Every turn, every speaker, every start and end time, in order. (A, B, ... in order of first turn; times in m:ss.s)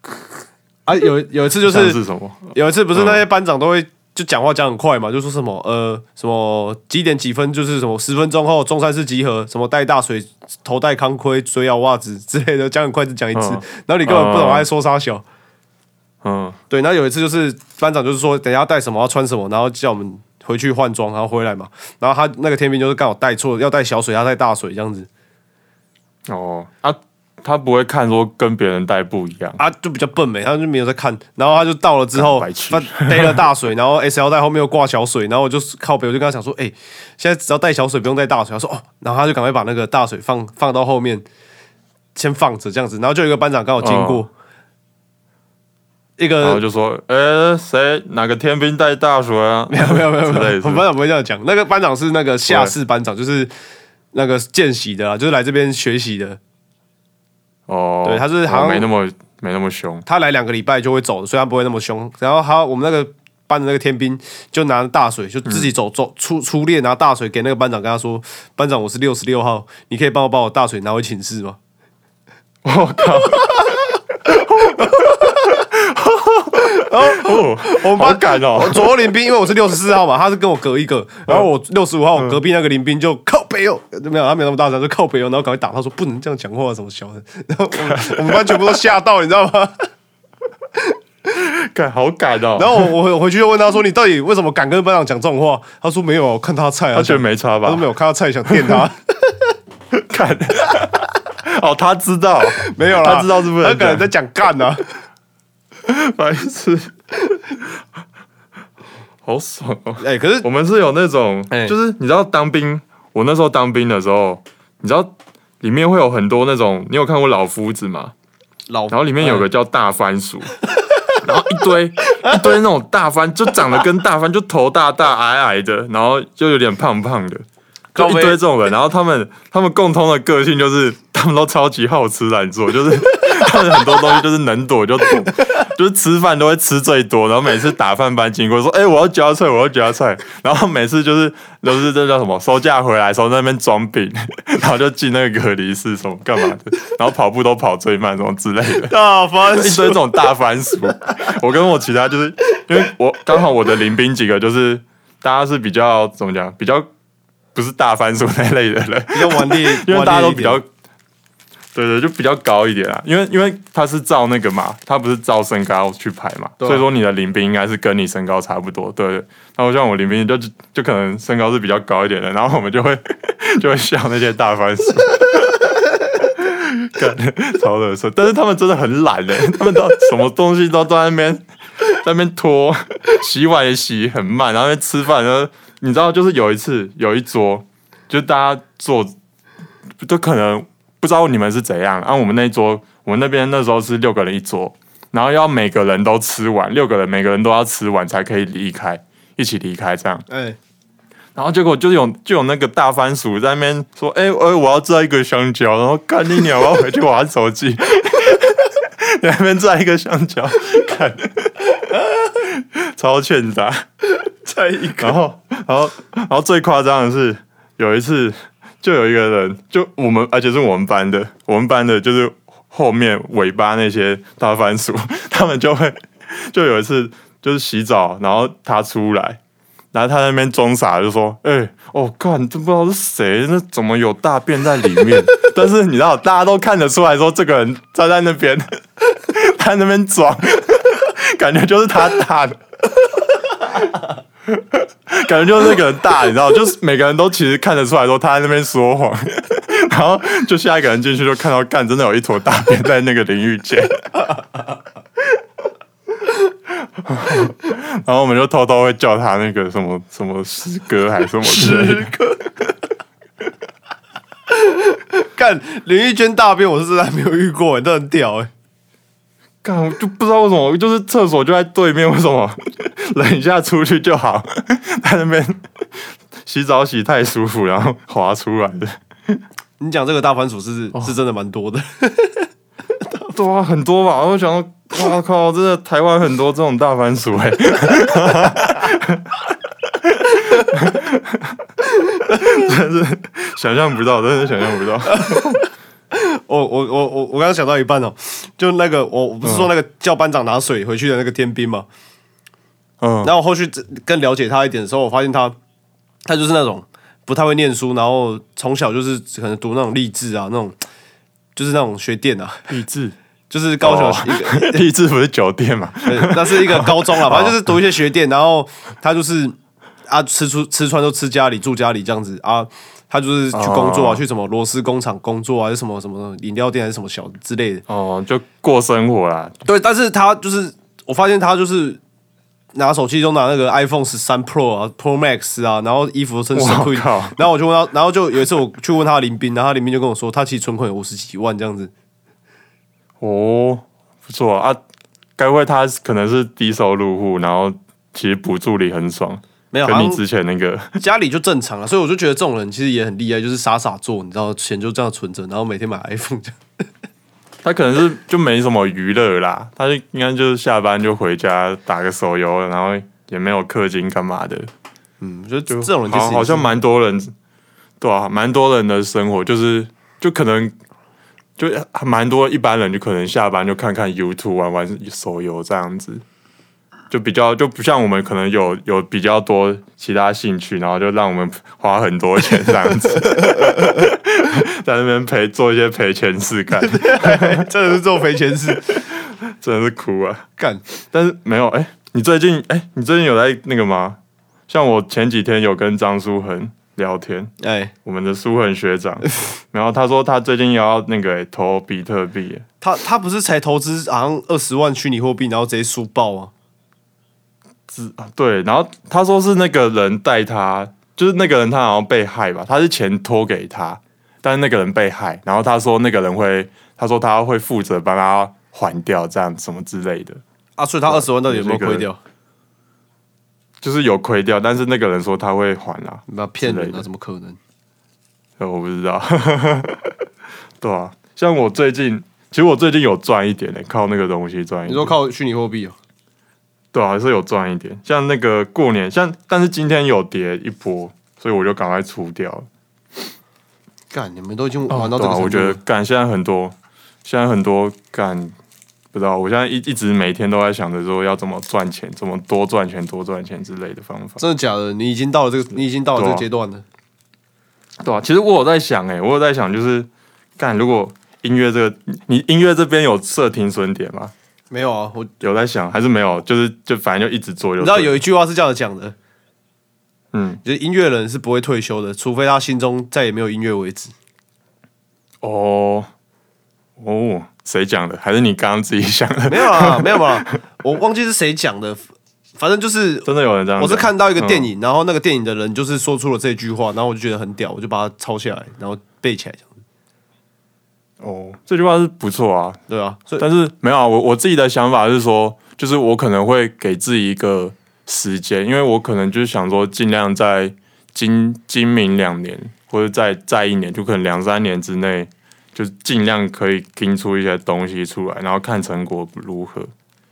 0:00.8-0:02.0 A
0:01.6-0:03.2 B
0:02.5-0:15.2 A
0:13.3-0:14.7 B
0:16.2-0:16.6 B
0:16.7-0:25.1 A
0:26.3-0:29.6 B
0:29.6-0:41.2 A
0:32.1-0:33.5 B
0:42.1-0:44.3 A
0:43.8-0:44.2 B
0:46.2-0:46.6 A
0:46.4-0:50.8 B
0:49.7-0:53.5 A
0:52.5-0:52.8 B
0:54.1-0:56.4 A
0:57.7-1:00.0 B
0:58.0-0:58.9 A
1:00.0-1:11.6 A
1:12.6-1:18.9 B
1:14.6-1:15.4 A
1:16.6-1:29.9 A
1:27.8-1:28.8 B
1:31.3-1:32.9 B
1:32.6-1:39.4 A
1:36.9-1:37.8 B
1:38.5-1:38.8 B
1:39.9-1:44.1 B
1:42.6-1:44.9 A
1:45.8-1:46.9 B
1:49.2-1:58.1 B
1:50.0-1:50.5 A
1:51.5-1:51.7 A
1:58.7-1:59.4 A
1:58.9-2:00.5 B
2:01.2-2:07.4 B
2:07.9-2:08.4 A
2:08.0-2:28.9 B
2:28.8-2:30.0 A
2:29.5-2:36.9 B
2:37.5-2:40.7 B
2:39.1-2:40.6 A
2:41.7-3:09.1 B
3:10.0-3:20.2 B
3:20.3-3:20.6 A
3:21.3-3:33.8 B
3:34.2-3:35.2 A
3:35.0-3:49.4 B
3:49.9-4:02.6 B
4:04.5-4:14.1 B
4:17.0-4:22.1 B
4:21.4-4:22.6 A
4:24.5-4:28.5 A
4:29.6-4:39.4 B
4:39.8-4:42.5 A
4:43.2-4:51.6 B
4:52.2-4:55.6 B
4:55.1-4:55.6 A
4:56.1-5:01.9 A
4:59.4-4:59.7 B
5:03.0-5:03.3 B
5:03.2-5:05.6 A
5:06.2-5:10.8 A
5:11.6-5:12.6 A
5:12.7-5:13.2 B
5:13.5-5:14.8 A
5:13.8-5:17.6 B
5:16.0-5:19.6 A
5:20.1-5:27.8 A
5:23.5-5:24.2 B
5:27.9-5:29.6 B
5:29.6-5:32.0 A
5:32.7-5:41.9 A
5:36.5-5:37.4 B
5:43.2-5:44.8 B
5:45.4-5:51.0 B
5:49.7-5:50.2 A
5:51.0-5:56.6 A
5:57.6-6:04.7 B
6:05.2-6:06.7 A
6:05.7-6:07.3 B
6:08.0-6:10.7 B
6:11.6-6:16.2 B
6:17.1-6:27.7 B
6:23.5-6:23.8 A
6:26.8-6:29.0 A
6:28.7-6:30.5 B
6:31.1-6:37.5 B
6:37.6-6:37.9 A
6:38.0-6:42.6 B
6:42.8-6:46.5 A
6:47.9-7:00.4 B
7:00.8-7:02.2 A
7:01.1-7:02.1 B
7:03.8-7:07.0 B
7:06.3-7:07.6 A
7:08.6-7:10.2 B
7:10.8-7:15.1 B
7:14.8-7:16.0 A
7:16.9-7:22.7 B
7:24.1-7:25.8 A
7:24.9-7:28.5 B
7:29.1-7:34.4 B
7:34.4-7:36.8 A
7:36.1-7:36.4 B
7:38.0-7:44.3 B
7:44.7-7:45.3 A
7:45.4-7:48.2 B
7:47.8-7:49.1 A
7:50.3-7:50.6 B
7:50.6-7:54.1 A
7:55.4-7:56.1 B
7:57.0-8:00.6 B
7:59.5-8:02.0 A
8:02.6-8:09.8 A
8:03.2-8:04.7 B
8:11.2-8:12.8 B
8:12.9-8:13.4 A
8:13.4-8:29.9 B